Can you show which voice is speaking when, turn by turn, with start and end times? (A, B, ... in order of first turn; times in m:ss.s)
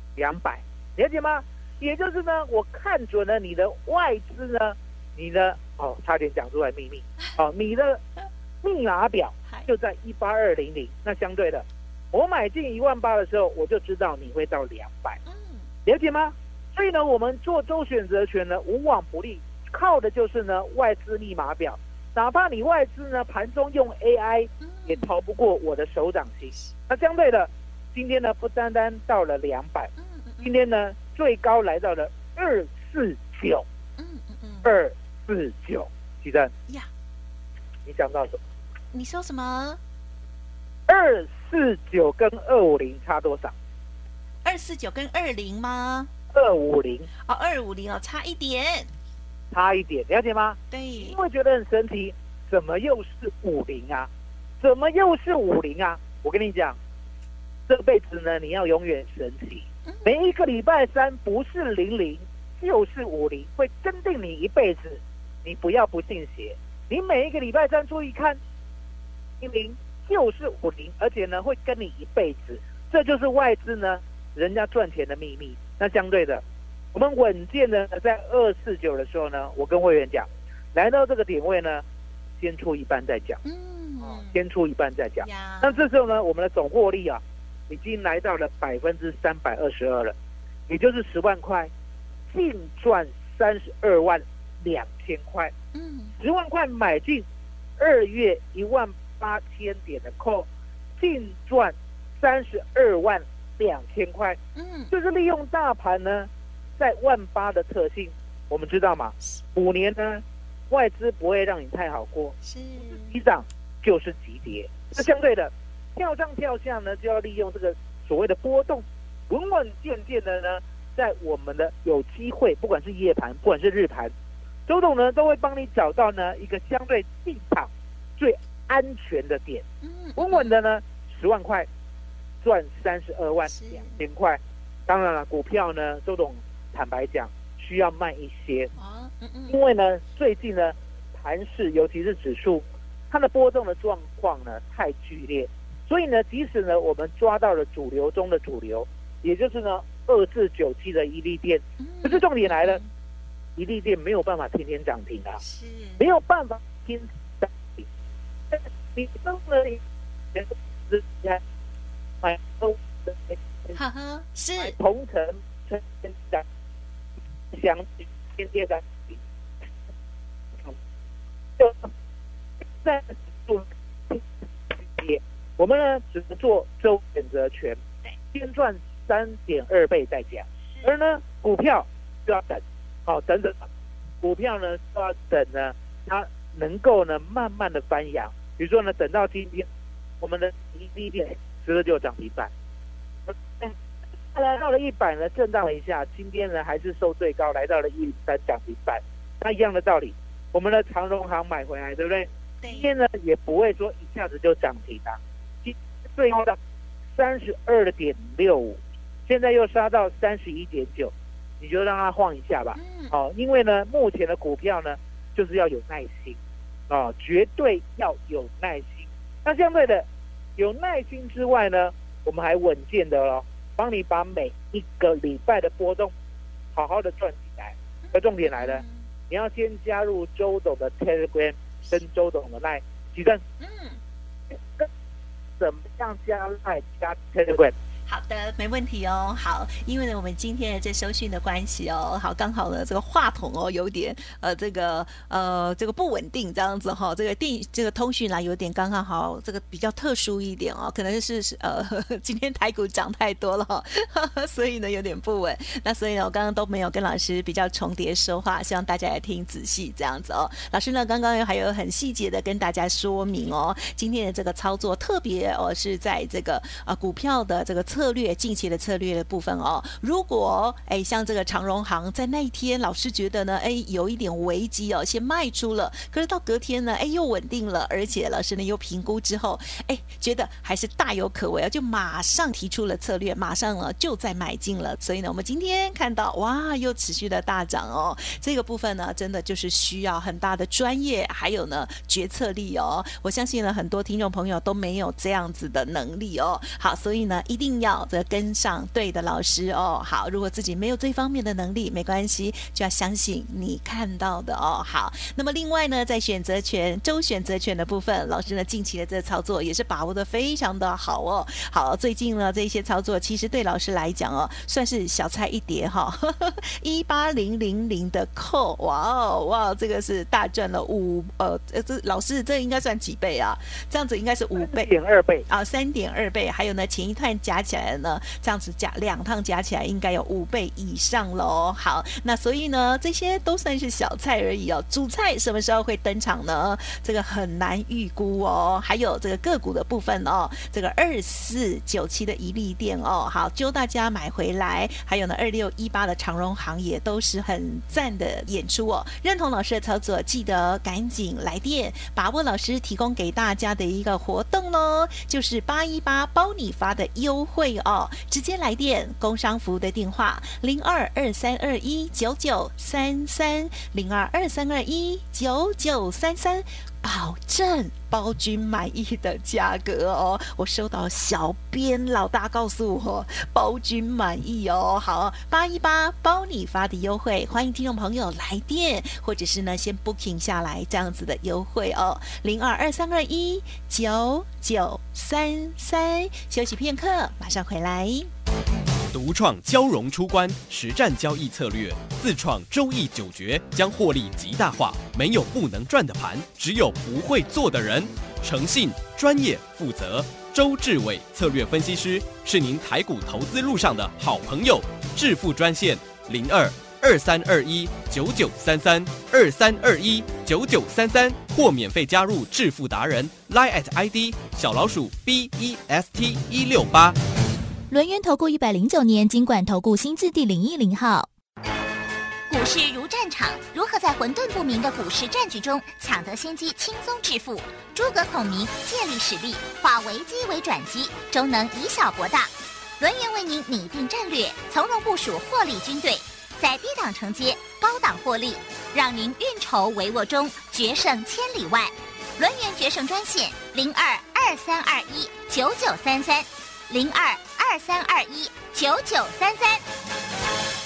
0:00.2-0:08.0 A
0:08.6-0:15.2 A
0:15.2-0:15.7 B
0:15.8-0:29.9 A
0:24.6-0:25.2 B
0:30.0-0:30.5 B
0:30.4-0:33.6 A
0:34.0-0:34.7 B
0:34.6-0:36.5 A
0:37.8-0:38.4 A
0:38.9-0:39.8 B
0:40.9-0:43.5 A
0:44.4-0:46.1 B
0:46.3-0:47.1 A
0:47.2-0:48.9 B
0:49.5-0:54.1 A
0:50.7-0:51.2 B
0:54.6-0:56.8 A
0:57.7-1:08.4 A
0:59.8-1:00.2 B
1:09.4-1:16.4 A
1:16.9-1:21.8 A
1:22.4-1:23.4 A
1:23.4-1:24.4 B
1:24.0-1:30.1 A
1:25.2-1:25.8 B
1:30.7-1:31.7 A
1:32.3-1:35.5 A
1:35.7-1:36.1 B
1:36.2-1:37.2 A
1:37.8-1:44.4 A
1:44.5-1:44.9 B
1:44.9-2:04.1 A
1:52.4-1:53.2 B
2:04.7-2:09.6 A
2:09.8-2:10.5 B
2:10.2-2:11.7 A
2:12.4-2:18.7 A
2:13.4-2:14.0 B
2:18.8-2:19.6 B
2:19.5-2:32.8 A
2:31.8-2:32.9 B
2:33.6-2:35.4 A
2:35.4-2:36.1 B
2:36.0-2:37.8 A
2:38.5-2:39.8 A
2:40.3-2:41.4 A
2:42.2-2:43.7 A
2:43.7-2:44.8 B
2:44.6-2:46.4 A
2:47.5-2:49.2 A
2:51.6-2:51.9 A
2:52.8-2:57.8 A
2:58.3-3:03.7 A
3:04.2-3:09.7 A
3:10.2-3:12.5 A
3:13.3-3:13.7 A
3:14.3-3:26.6 A
3:22.6-3:22.9 B
3:27.1-3:36.4 A
3:32.7-3:33.1 B
3:36.9-3:40.0 A
3:40.6-3:46.1 A
3:46.7-3:53.4 A
3:48.1-3:49.1 B
3:53.6-3:54.0 B
3:55.6-3:57.7 A
3:58.1-5:24.9 B
5:24.6-5:25.4 A
5:25.5-6:28.3 B
6:29.1-6:57.2 C
6:57.9-7:01.3 D
7:02.5-7:29.8 E